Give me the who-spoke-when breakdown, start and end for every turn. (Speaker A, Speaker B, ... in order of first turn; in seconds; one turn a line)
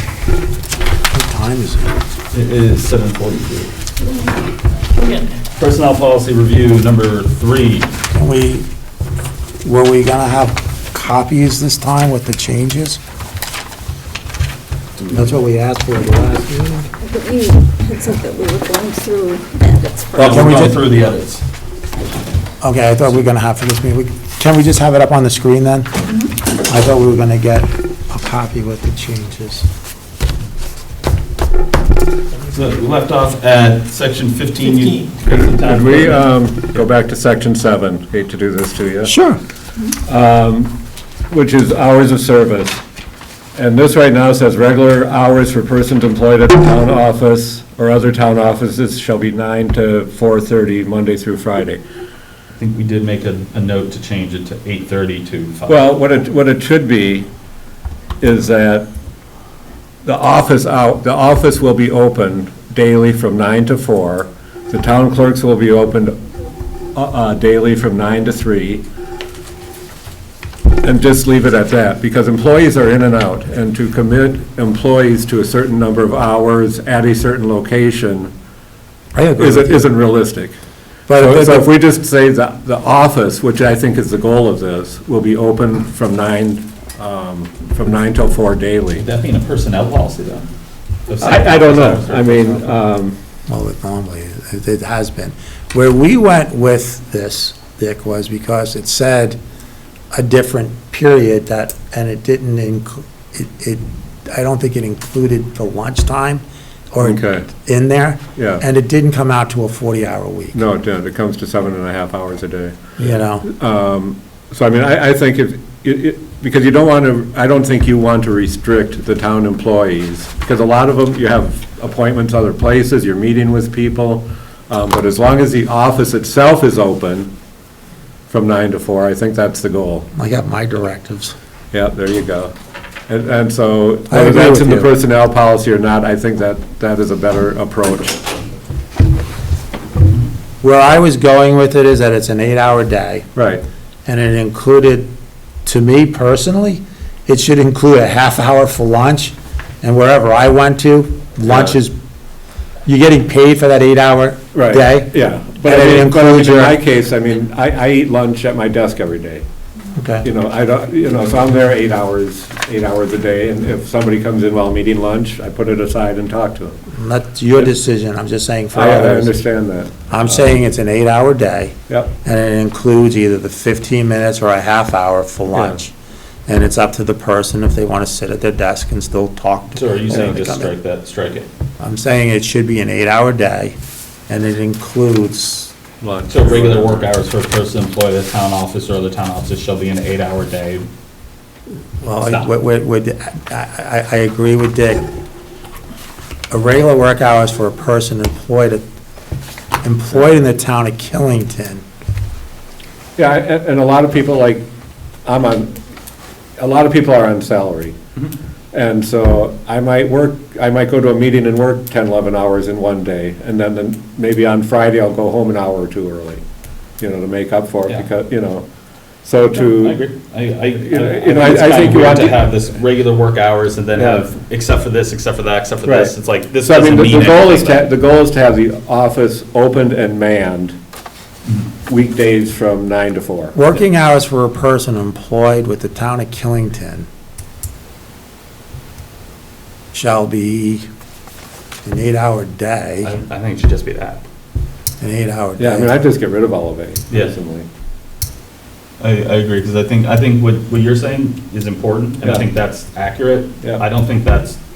Speaker A: 1.1-1.9
Speaker B: 2.3-3.7
Speaker C: 5.0-5.3
Speaker B: 5.6-7.9
Speaker A: 8.2-8.7
Speaker A: 9.6-13.0
Speaker A: 15.1-16.9
Speaker C: 17.0-20.4
Speaker B: 20.2-21.4
Speaker A: 20.2-20.8
Speaker A: 22.6-25.9
Speaker A: 26.5-29.7
Speaker B: 32.5-36.4
Speaker D: 35.5-39.1
Speaker A: 39.0-39.4
Speaker D: 40.1-40.8
Speaker D: 41.3-42.8
Speaker D: 43.6-51.8
Speaker B: 52.5-55.9
Speaker D: 55.7-57.3
Speaker D: 58.2-58.9
Speaker D: 60.0-66.2
Speaker D: 67.0-68.8
Speaker D: 70.8-78.3
Speaker A: 79.1-80.0
Speaker D: 79.4-80.6
Speaker A: 81.1-81.7
Speaker D: 81.1-89.0
Speaker B: 89.0-90.5
Speaker B: 91.1-92.8
Speaker D: 91.2-93.2
Speaker A: 93.5-99.4
Speaker A: 100.1-110.6
Speaker D: 107.0-107.5
Speaker D: 108.4-108.6
Speaker D: 110.5-127.3
Speaker A: 113.0-113.5
Speaker D: 128.3-130.1
Speaker A: 130.2-131.3
Speaker D: 131.7-132.5
Speaker D: 133.1-138.3
Speaker A: 134.1-134.9
Speaker A: 140.6-143.3
Speaker D: 143.4-143.7
Speaker A: 144.1-145.1
Speaker A: 145.7-151.9
Speaker D: 151.4-151.8
Speaker A: 152.9-156.8
Speaker D: 154.5-159.4
Speaker A: 159.9-160.3
Speaker D: 160.2-166.8
Speaker A: 166.9-169.4
Speaker D: 168.7-170.6
Speaker A: 170.1-175.9
Speaker A: 176.5-180.7
Speaker B: 179.8-181.5
Speaker A: 181.8-183.8
Speaker A: 184.3-185.8
Speaker D: 186.0-187.1
Speaker B: 186.3-190.9
Speaker A: 192.0-195.0
Speaker B: 192.2-192.5
Speaker A: 196.5-198.8
Speaker A: 199.8-201.8
Speaker D: 203.2-204.7
Speaker D: 205.2-205.8
Speaker D: 206.6-208.0
Speaker D: 208.7-216.4
Speaker D: 217.0-218.7
Speaker D: 219.2-220.1
Speaker B: 219.6-227.9
Speaker D: 220.8-222.5
Speaker D: 224.0-224.3
Speaker D: 225.8-230.8
Speaker D: 231.9-233.6
Speaker A: 233.5-237.1
Speaker A: 239.9-240.9
Speaker A: 241.8-243.1
Speaker B: 243.0-244.2
Speaker A: 245.0-245.9
Speaker D: 245.6-247.7
Speaker B: 249.0-254.6